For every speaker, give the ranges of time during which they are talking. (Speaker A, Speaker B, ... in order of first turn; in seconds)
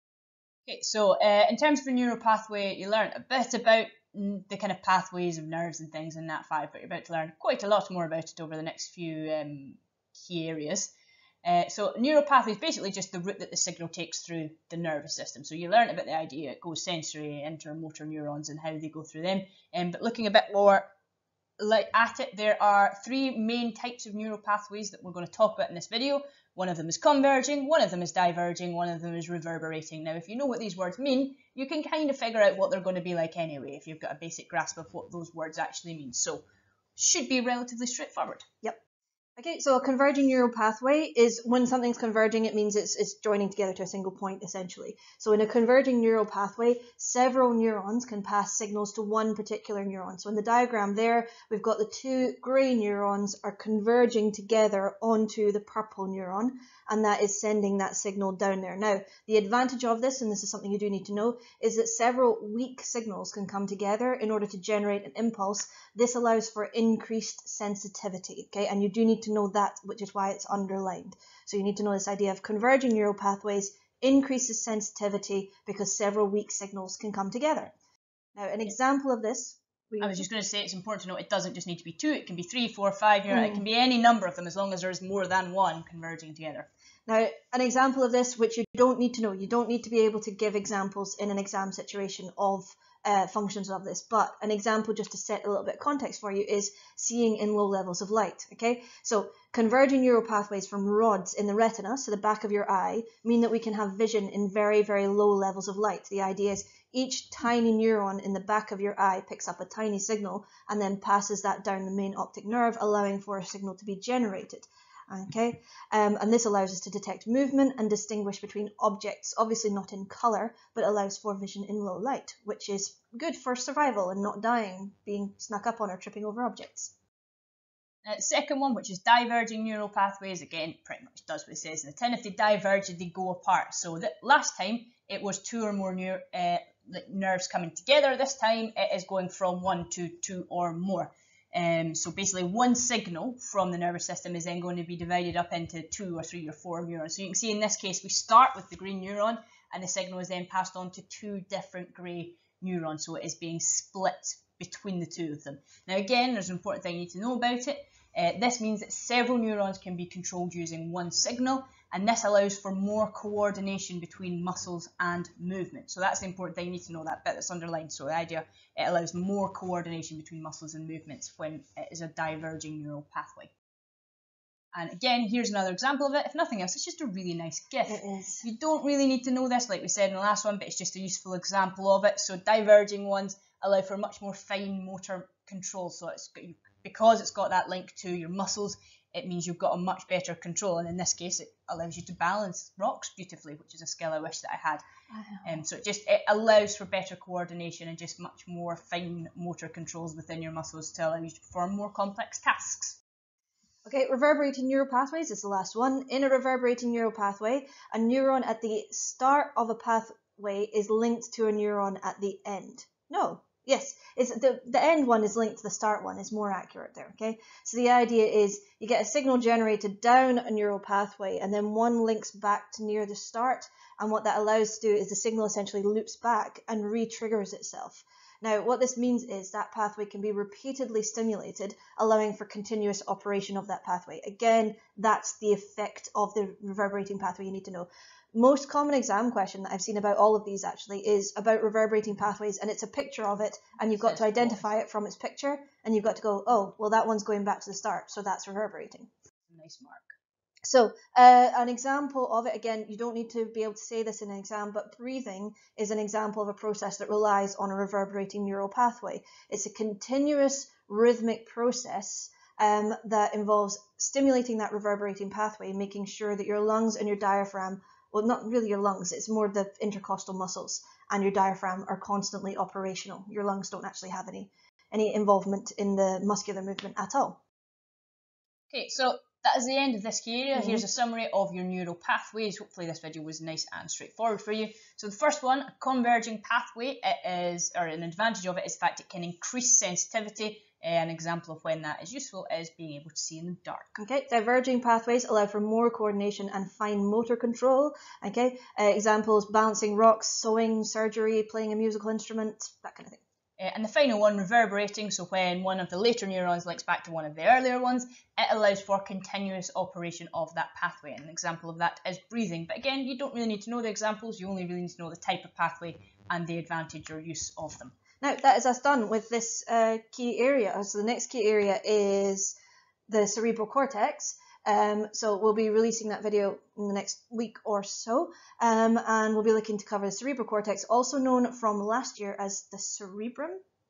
Speaker A: 0.7-10.9, 11.4-20.9, 21.6-36.4, 37.0-38.5, 80.0-86.7, 128.1-173.5, 174.7-194.8, 195.4-203.0, 244.0-244.7, 249.5-250.1, 278.7-293.9, 303.6-317.9
Speaker B: 39.4-77.7, 78.4-80.3, 83.3-83.6, 87.1-126.9, 177.9-178.5, 195.1-195.6, 203.8-249.1, 250.7-277.4, 280.6-280.8, 293.9-303.2, 318.2-322.6, 323.1-333.6